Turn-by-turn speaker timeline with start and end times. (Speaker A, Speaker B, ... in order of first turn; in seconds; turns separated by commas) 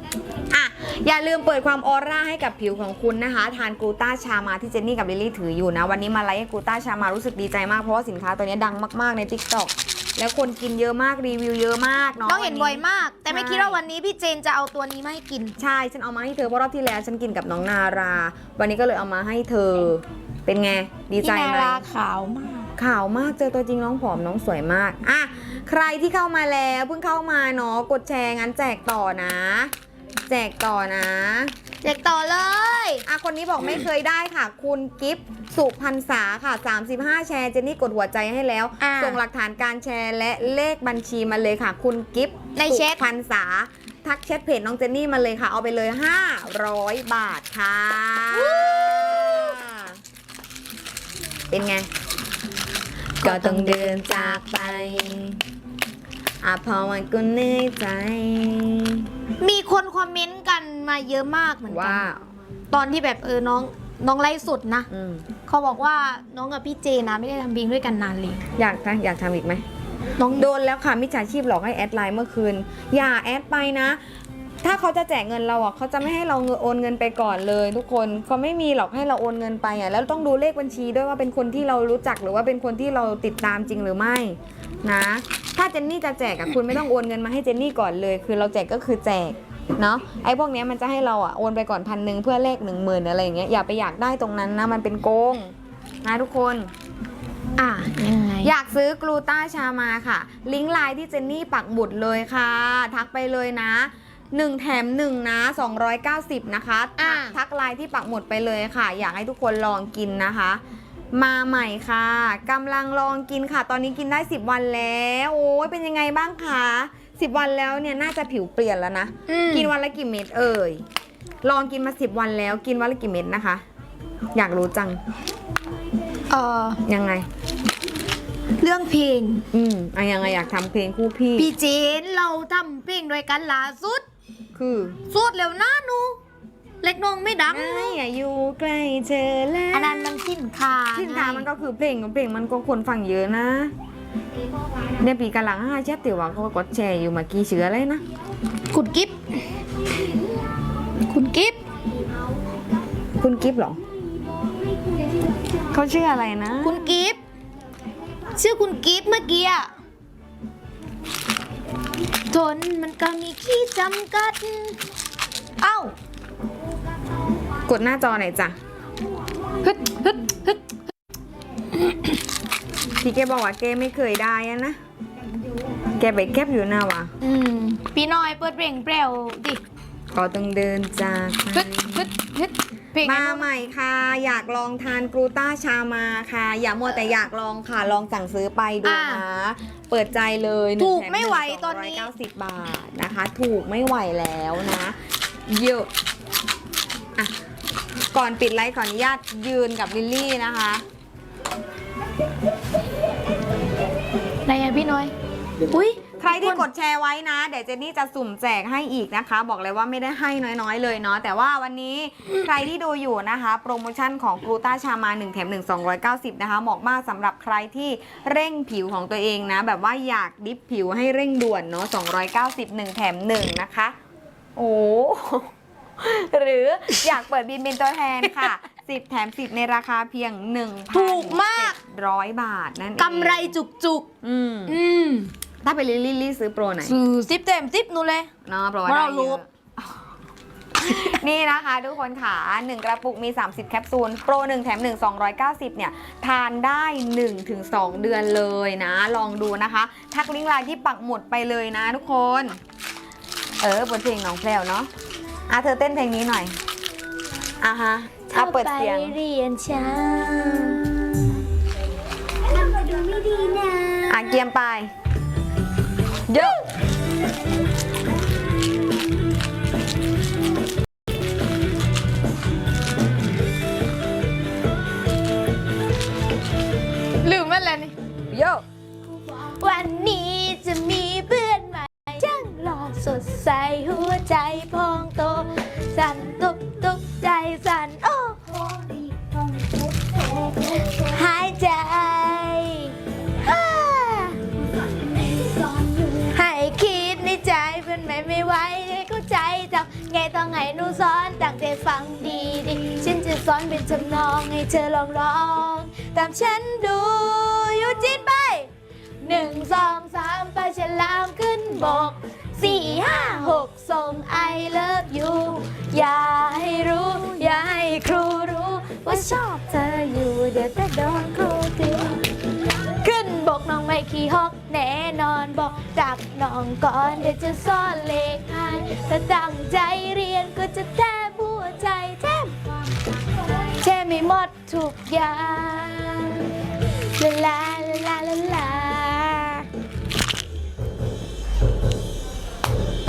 Speaker A: 0.5-13.8, Speaker B: 12.2-15.5, Speaker A: 15.6-21.8, Speaker B: 21.2-22.7, Speaker A: 22.8-29.7, Speaker A: 30.3-31.5, Speaker B: 31.8-33.0, Speaker A: 33.0-50.0, Speaker B: 38.8-39.2, Speaker B: 42.5-43.0, Speaker B: 48.3-49.6, Speaker A: 51.5-51.9, Speaker B: 53.2-54.4, Speaker A: 53.2-55.4, Speaker A: 56.4-59.1, Speaker B: 59.4-62.1, Speaker A: 61.7-62.2, Speaker B: 62.7-64.9, Speaker A: 64.9-65.2, Speaker B: 65.5-68.4, Speaker A: 68.6-69.6, Speaker A: 70.2-74.0, Speaker A: 74.6-96.7, Speaker B: 97.6-98.5, Speaker A: 98.4-110.6, Speaker B: 107.0-107.3, Speaker A: 111.1-120.8, Speaker B: 119.3-119.7, Speaker A: 121.4-123.6, Speaker A: 124.3-125.0, Speaker B: 126.3-126.8, Speaker A: 126.8-127.2, Speaker B: 128.6-129.4, Speaker A: 129.5-131.5, Speaker B: 131.4-134.1, Speaker A: 134.6-135.0, Speaker B: 135.1-136.2, Speaker B: 136.8-138.0, Speaker A: 137.5-140.2, Speaker B: 139.7-141.5, Speaker A: 140.9-143.7, Speaker A: 145.0-148.0, Speaker B: 148.7-149.4, Speaker B: 151.1-151.6, Speaker A: 153.2-153.8, Speaker A: 155.7-156.9, Speaker B: 156.6-157.2, Speaker B: 158.4-159.7, Speaker B: 162.3-164.8, Speaker B: 165.6-165.9, Speaker A: 167.7-168.6, Speaker B: 169.6-170.7, Speaker B: 171.7-172.2, Speaker A: 173.0-174.8, Speaker A: 175.9-177.1, Speaker B: 177.2-179.6, Speaker A: 180.1-182.1, Speaker B: 181.5-183.5, Speaker A: 183.0-194.9, Speaker B: 188.8-189.2, Speaker B: 190.8-192.1, Speaker A: 195.5-195.9, Speaker A: 198.1-200.8, Speaker B: 204.4-205.1, Speaker B: 205.7-206.7, Speaker A: 206.2-223.9, Speaker A: 224.6-233.5, Speaker B: 230.9-231.8, Speaker B: 233.0-234.1, Speaker A: 234.2-234.8, Speaker B: 234.7-235.3, Speaker A: 235.6-236.9, Speaker B: 236.8-238.3, Speaker A: 238.4-239.9, Speaker B: 238.8-239.4, Speaker A: 240.8-252.6, Speaker B: 240.8-241.1, Speaker A: 253.6-254.9, Speaker A: 255.5-256.5, Speaker A: 257.6-259.1, Speaker B: 258.3-260.9, Speaker B: 262.4-264.4, Speaker A: 264.1-264.9, Speaker A: 266.3-266.6, Speaker B: 266.3-266.6, Speaker B: 277.2-277.9, Speaker A: 278.3-278.6, Speaker B: 279.2-294.4, Speaker B: 296.2-308.7, Speaker B: 309.2-319.5, Speaker A: 319.3-322.1, Speaker B: 322.8-332.5, Speaker B: 333.8-336.6, Speaker B: 337.1-339.7